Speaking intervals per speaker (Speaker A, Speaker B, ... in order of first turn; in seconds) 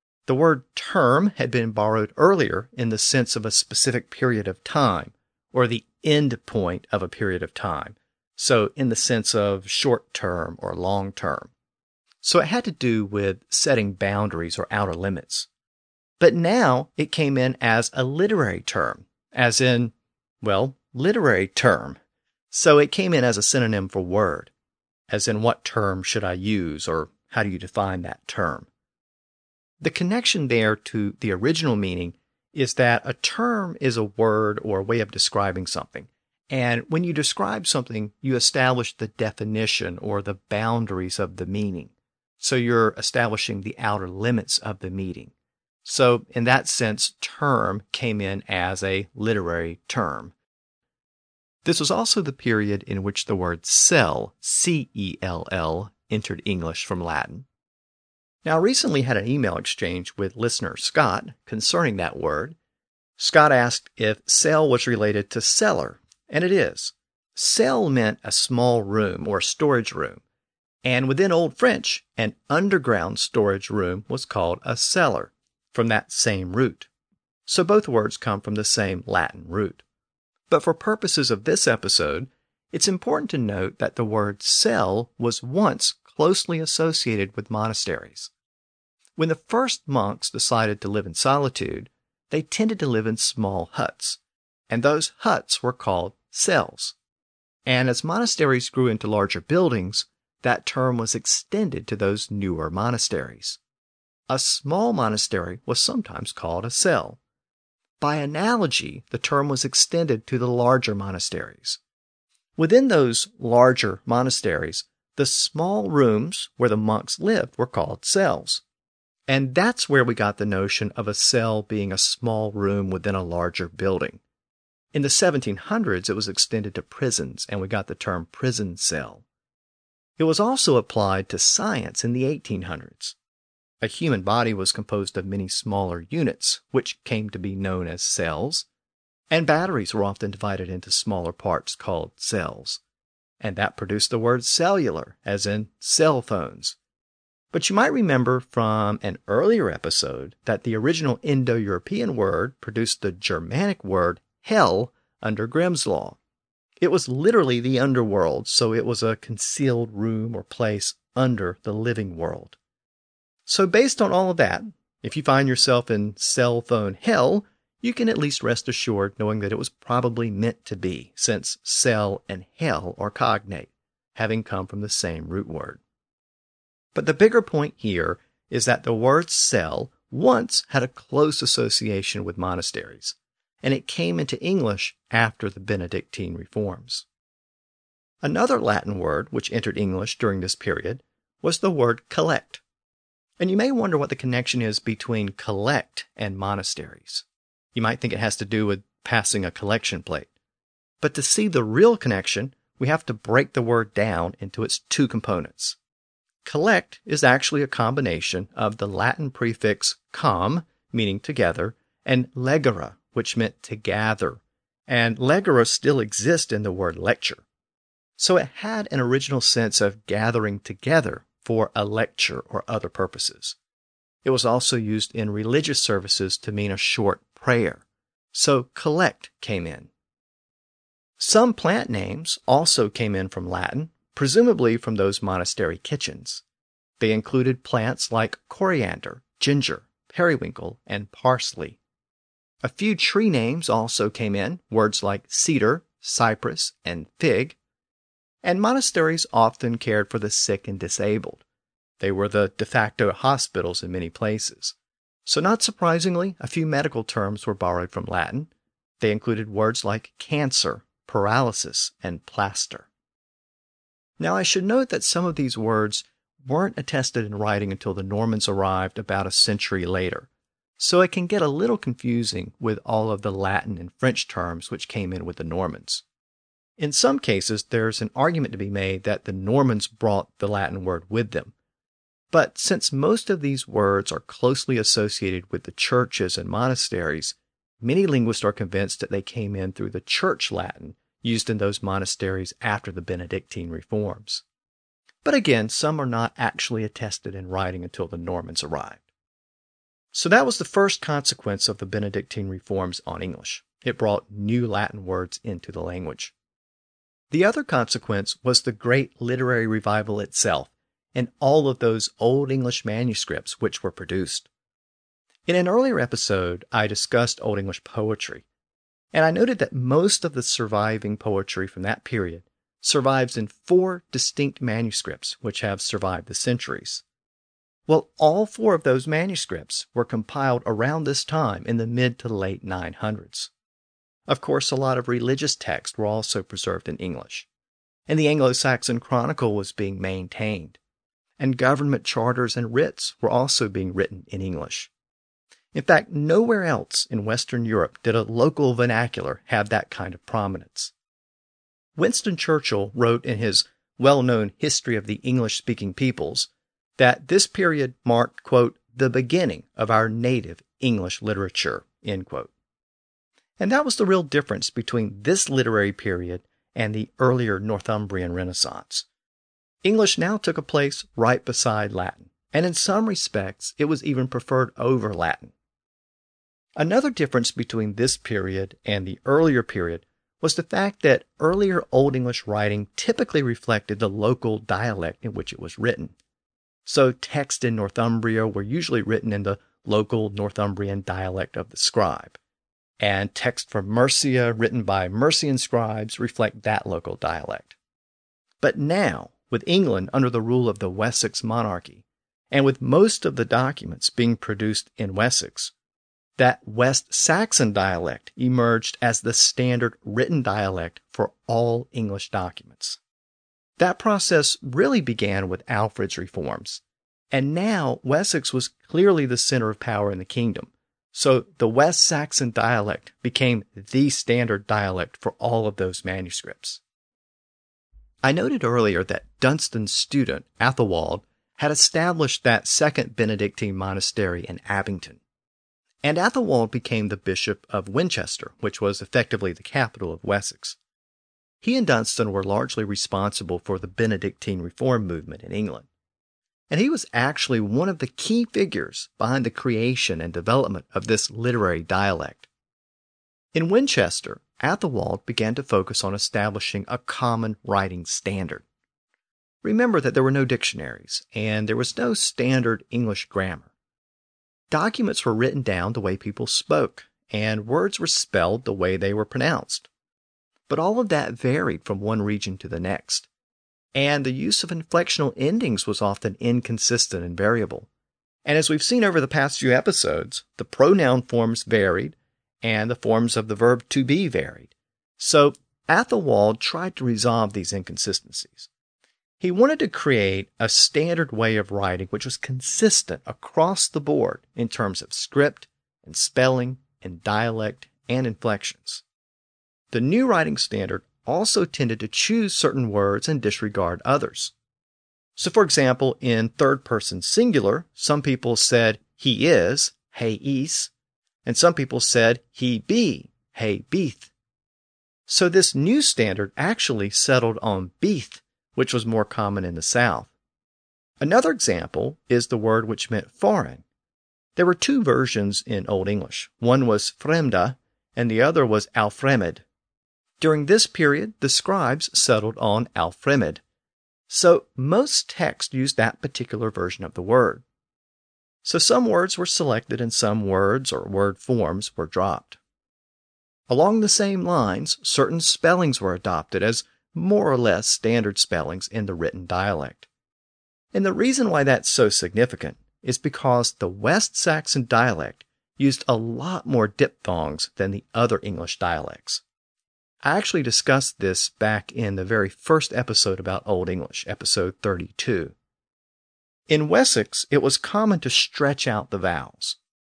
Speaker A: 0.3-11.5, 12.2-15.5, 16.2-22.0, 22.5-24.5, 25.1-28.7, 29.8-45.3, 45.8-50.3, 51.6-57.5, 58.4-62.6, 63.2-70.2, 70.8-76.9, 77.5-79.8, 80.5-88.3, 89.2-96.9, 97.7-103.6, 104.3-107.2, 108.0-111.8, 112.6-118.6, 119.3-124.2, 124.9-129.2, 130.2-133.2, 133.8-138.7, 139.3-142.8, 143.4-146.8, 147.5-156.2, 156.8-162.6, 163.4-175.8, 176.9-187.1, 188.2-192.6, 193.4-200.3, 201.0-205.8, 206.4-217.4, 218.2-223.6, 224.2-229.9, 231.2-236.4, 237.0-241.8, 242.6-247.6, 248.4-251.4, 252.0-254.7, 255.2-262.9, 264.2-276.0, 276.8-281.5, 282.3-294.4, 295.2-299.0, 300.1-306.3, 307.3-314.5, 315.5-318.4, 319.1-327.0, 327.9-333.5, 334.3-337.5, 338.1-340.8, 341.4-344.9, 345.7-350.9, 351.9-362.5, 363.6-369.1, 369.8-375.5, 376.8-386.1, 386.9-392.4, 393.0-397.8, 398.6-405.7, 406.4-413.0, 413.8-426.8, 428.2-435.2, 436.0-440.8, 441.6-445.9, 446.7-452.5, 453.5-458.6, 459.6-463.7, 464.7-469.9, 470.7-473.3, 473.9-477.9, 478.4-488.7, 489.4-499.0, 499.9-504.5, 505.4-510.9, 511.4-514.3, 515.3-520.3, 521.2-523.8, 524.5-529.6, 530.4-533.6, 534.3-537.6, 538.6-542.6, 543.7-550.1, 550.9-559.4, 560.2-565.5, 566.7-569.8